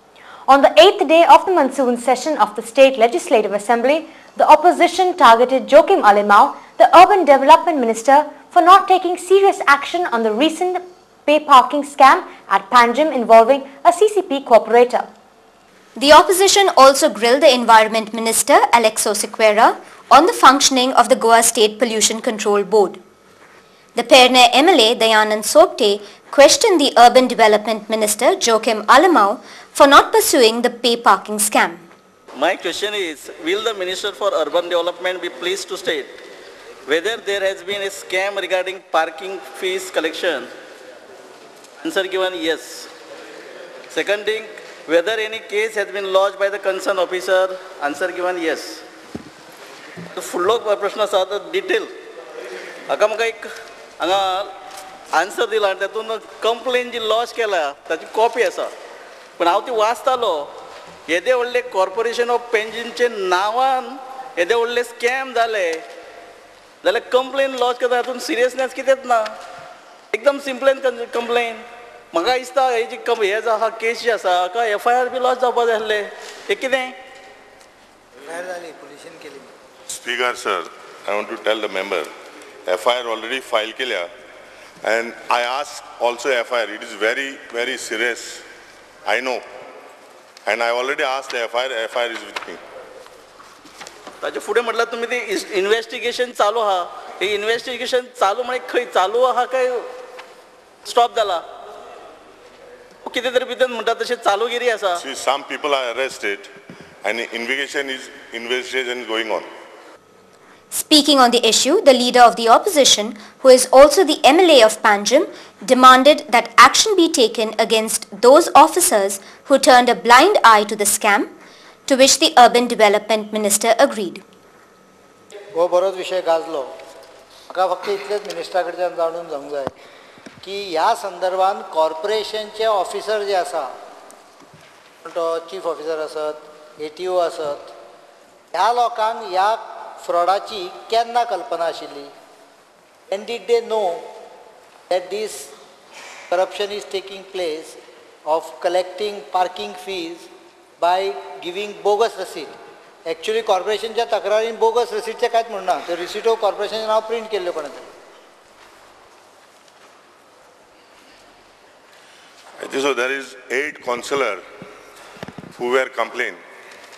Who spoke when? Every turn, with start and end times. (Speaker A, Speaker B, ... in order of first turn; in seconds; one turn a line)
Speaker A: 0.5-15.1
Speaker B: 16.0-23.0
Speaker B: 23.9-31.8
Speaker C: 32.4-36.1
Speaker C: 36.9-40.5
Speaker C: 41.8-42.9
Speaker C: 43.9-48.8
Speaker C: 50.1-51.9
Speaker C: 52.9-53.5
Speaker C: 54.0-54.5
Speaker C: 55.1-58.7
Speaker C: 59.4-60.5
Speaker C: 61.1-65.8
Speaker C: 66.8-69.3
Speaker C: 70.1-76.9
Speaker D: 78.3-79.5
Speaker E: 79.9-82.1
Speaker E: 82.7-84.1
Speaker E: 84.8-88.4
Speaker E: 89.0-89.4
Speaker E: 90.5-92.6
Speaker C: 94.2-99.8
Speaker C: 100.8-101.4
Speaker C: 103.0-105.0
Speaker E: 105.0-106.5
Speaker E: 107.0-109.5
Speaker B: 110.7-121.3
Speaker B: 121.9-124.2
Speaker D: 125.5-126.7
Speaker D: 127.5-129.7
Speaker D: 130.4-133.7
Speaker D: 135.0-137.7
Speaker D: 138.5-142.1
Speaker D: 143.1-144.1
Speaker D: 144.9-145.5
Speaker D: 146.3-150.3
Speaker D: 150.8-152.5
Speaker D: 153.1-157.9
Speaker E: 162.6-164.4
Speaker E: 165.5-166.4